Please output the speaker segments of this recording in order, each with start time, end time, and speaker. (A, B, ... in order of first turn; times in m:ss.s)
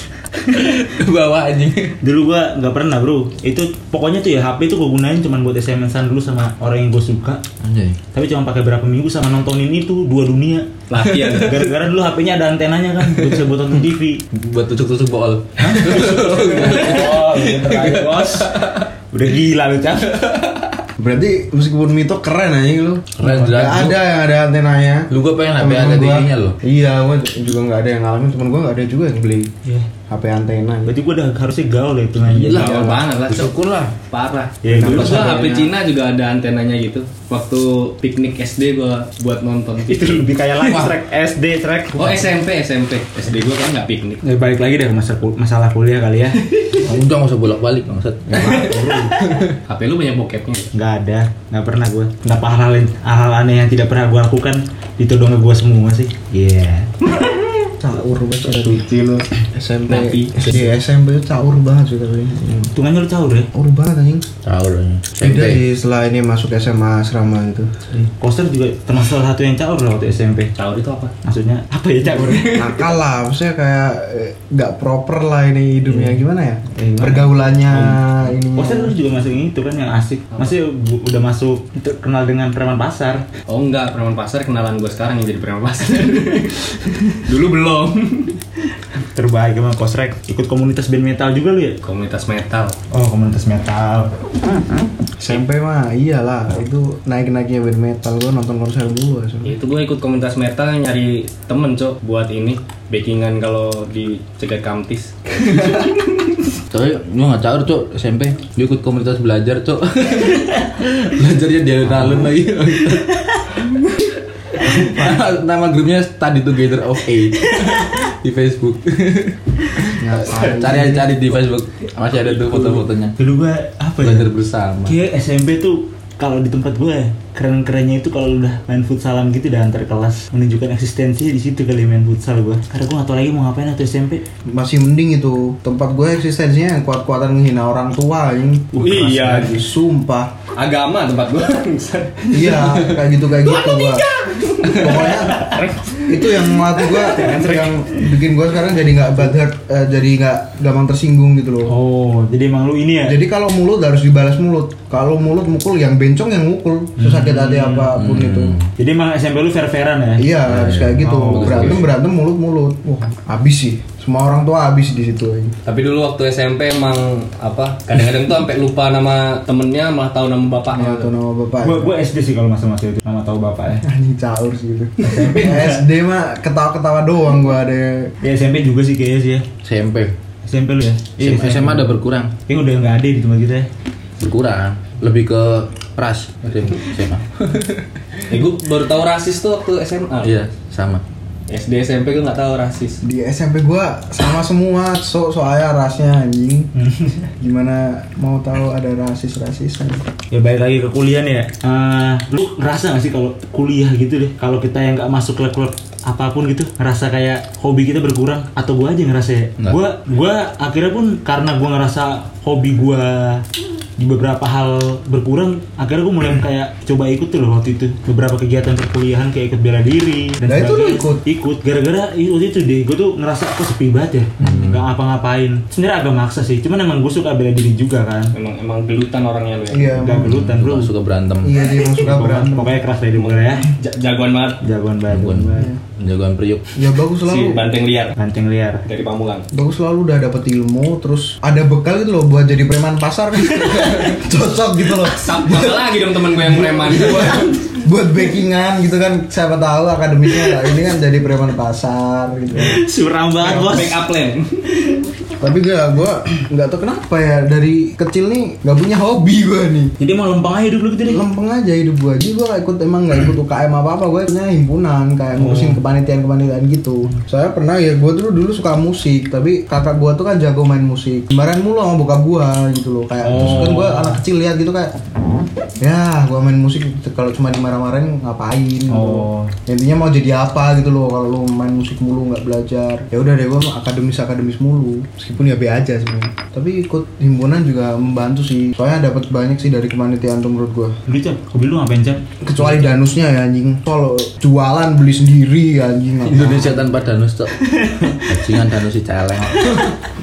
0:00.4-0:02.0 A
0:02.0-0:07.4 B
0:07.6-0:08.0 C
0:08.1-0:14.2 B
0:10.9-0:11.6 D
0:11.0-0:11.6 A
0:13.0-0:13.4 A
0:14.3-0:16.1 C
0:15.6-0:18.5 B
0:15.7-0:18.9 A
0:19.1-0:20.2 B
0:20.0-0:20.8 A
0:21.0-0:29.5 E
0:23.2-0:24.0 C
0:25.1-0:26.6 C
0:30.1-0:30.9 E
0:30.8-0:32.9 B
0:32.2-0:33.9 C
0:32.5-0:33.6 D
0:34.1-0:40.9 D
0:34.6-0:35.7 B
0:34.8-0:35.4 E
0:39.9-0:42.3 B
0:41.9-0:44.2 D
0:44.2-0:46.4 B
0:46.8-0:48.7 C
0:48.3-0:49.2 B
0:49.2-0:49.6 A
0:49.7-0:50.7 D
0:50.7-0:56.9 B
0:57.0-0:57.7 D
0:57.8-1:02.7 E
0:59.9-1:00.3 D
1:02.7-1:03.5 B
1:03.5-1:04.3 E
1:04.4-1:05.6 C
1:05.2-1:07.8 E
1:07.9-1:10.5 B
1:10.6-1:11.1 D
1:11.2-1:12.8 B
1:12.0-1:19.0 E
1:15.9-1:16.2 B
1:16.7-1:17.2 B
1:18.6-1:23.2 B
1:23.5-1:28.4 D
1:29.1-1:31.8 B
1:31.8-1:32.8 D
1:32.9-1:34.1 B
1:35.2-1:39.6 E
1:39.4-1:46.4 D
1:46.7-1:53.0 C
1:52.5-1:53.2 A
1:54.6-1:57.5 C
1:54.7-1:55.2 E
1:57.4-1:58.1 A
1:57.6-1:58.0 B
1:58.2-1:58.7 C
1:58.7-2:00.0 A
2:00.0-2:01.3 E
2:00.1-2:03.2 C
2:03.2-2:04.3 B
2:04.0-2:05.0 C
2:04.8-2:14.2 B
2:14.5-2:20.3 E
2:18.7-2:19.5 B
2:18.8-2:19.5 D
2:20.6-2:22.9 D
2:22.3-2:24.1 E
2:23.4-2:27.8 D
2:24.6-2:31.7 E
2:31.6-2:33.2 B
2:33.0-2:38.6 E
2:37.0-2:37.9 B
2:37.9-2:38.7 C
2:38.8-2:40.3 B
2:40.2-2:45.5 E
2:40.4-2:41.9 C
2:41.0-2:41.9 B
2:45.6-2:51.1 D
2:50.7-2:51.9 E
2:51.6-2:53.8 B
2:53.8-2:58.1 E
2:55.0-2:55.8 B
2:58.2-2:59.4 B
2:59.6-3:00.1 C
3:00.4-3:01.9 B
3:01.2-3:02.3 C
3:02.5-3:03.7 B
3:04.2-3:07.3 C
3:07.4-3:08.3 A
3:08.3-3:10.3 D
3:10.2-3:11.0 C
3:11.5-3:13.0 D
3:13.0-3:16.7 E
3:16.7-3:17.3 B
3:17.4-3:20.0 E
3:20.3-3:33.4 B
3:34.0-3:48.3 B
3:40.4-3:41.2 E
3:44.4-3:44.7 E
3:44.4-3:44.8 C
3:48.3-3:50.0 D
3:49.7-3:50.3 E
3:49.9-3:50.9 B
3:50.2-3:51.6 C
3:51.4-3:52.8 E
3:51.8-3:53.7 B
3:53.2-3:54.6 D
3:54.6-3:55.6 B
3:55.1-3:56.7 C
3:56.8-3:57.6 E
3:57.3-3:58.2 D
3:58.2-3:58.8 B
3:58.8-3:59.5 D
3:59.5-4:12.8 E
4:05.0-4:07.8 D
4:12.5-4:14.0 B
4:13.4-4:14.8 D
4:15.4-4:19.9 E
4:20.0-4:21.2 B
4:21.1-4:34.9 E
4:25.4-4:25.8 B
4:33.2-4:34.2 B
4:33.3-4:33.6 C
4:35.8-4:51.0 E
4:38.9-4:39.5 B
4:51.0-4:52.9 B
4:52.4-4:56.9 E
4:56.2-4:57.7 C
4:57.6-4:58.2 B
4:58.2-4:59.8 C
4:59.6-4:59.9 B